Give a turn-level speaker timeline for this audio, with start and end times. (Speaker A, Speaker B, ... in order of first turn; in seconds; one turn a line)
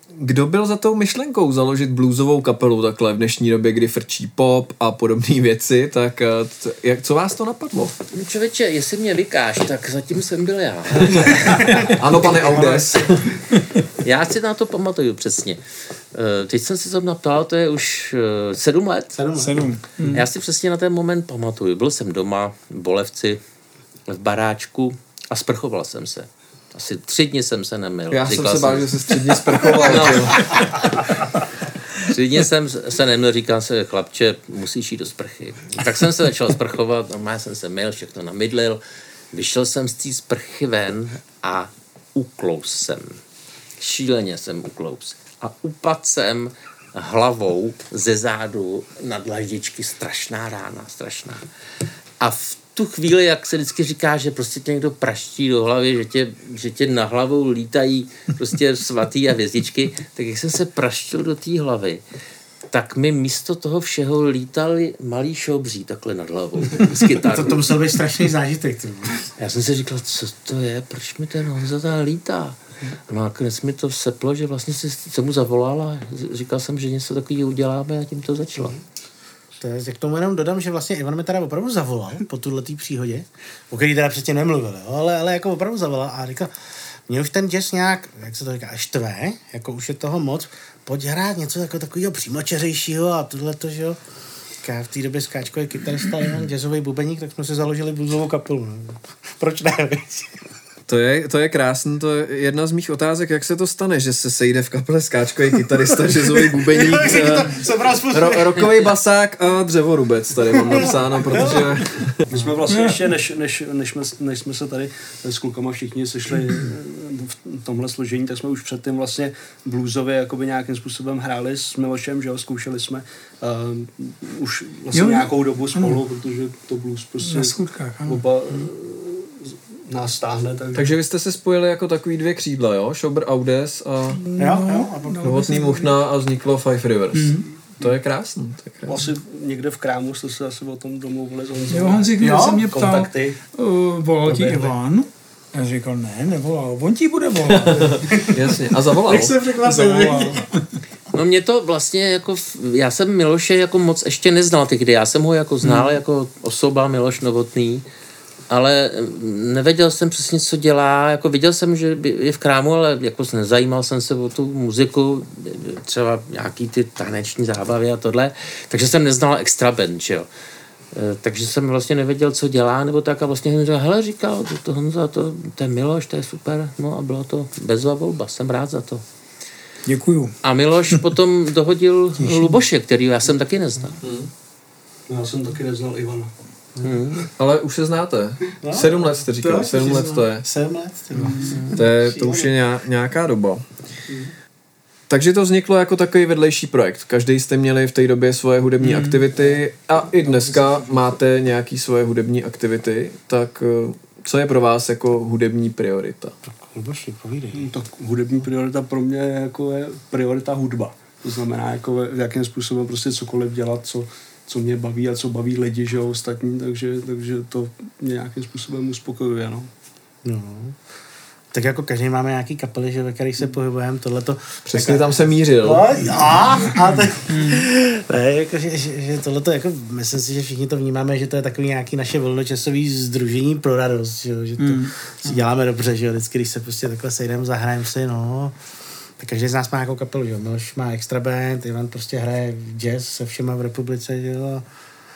Speaker A: 0.1-7.9
Speaker B: 8.1-12.0
Speaker A: 11.1-13.4
Speaker C: 11.7-13.0
Speaker B: 14.0-19.2
Speaker C: 19.1-19.7
Speaker D: 19.4-20.3
Speaker B: 20.1-23.4
Speaker B: 24.1-30.7
Speaker A: 28.1-30.6
Speaker B: 31.9-43.2
Speaker B: 43.8-51.5
Speaker B: 52.2-62.0
Speaker B: 62.7-67.8
Speaker C: 67.2-69.3
Speaker B: 69.4-78.8
Speaker C: 79.6-86.5
Speaker C: 87.1-94.0
Speaker C: 94.6-100.4
Speaker A: 100.9-112.2
Speaker C: 106.3-108.9
Speaker C: 111.3-111.7
Speaker E: 112.3-130.9
Speaker D: 112.7-113.0
Speaker D: 124.9-126.0
Speaker D: 127.2-128.2
Speaker A: 130.7-134.2
Speaker D: 134.1-135.9
Speaker C: 134.4-135.5
Speaker A: 135.2-138.9
Speaker D: 137.1-137.4
Speaker E: 138.9-143.4
Speaker D: 141.7-148.2
Speaker C: 142.2-143.0
Speaker C: 144.2-144.7
Speaker A: 147.5-149.4
Speaker C: 149.0-150.4
Speaker D: 149.6-150.6
Speaker B: 151.1-157.8
Speaker B: 158.5-170.3
Speaker B: 170.9-179.0
Speaker D: 179.8-180.3
Speaker B: 180.4-184.0
Speaker D: 182.2-182.6
Speaker A: 184.0-184.3
Speaker E: 185.1-186.3
Speaker B: 186.8-187.2
Speaker A: 187.4-190.5
Speaker C: 188.6-192.5
Speaker D: 191.2-191.7
Speaker A: 191.7-193.6
Speaker A: 195.1-206.3
Speaker D: 198.8-199.3
Speaker E: 200.2-201.0
Speaker C: 206.4-207.7
Speaker E: 207.5-219.7
Speaker C: 220.2-220.8
Speaker C: 221.5-238.6
Speaker A: 224.7-225.9
Speaker D: 227.0-227.7
Speaker D: 234.6-234.9
Speaker C: 239.2-244.7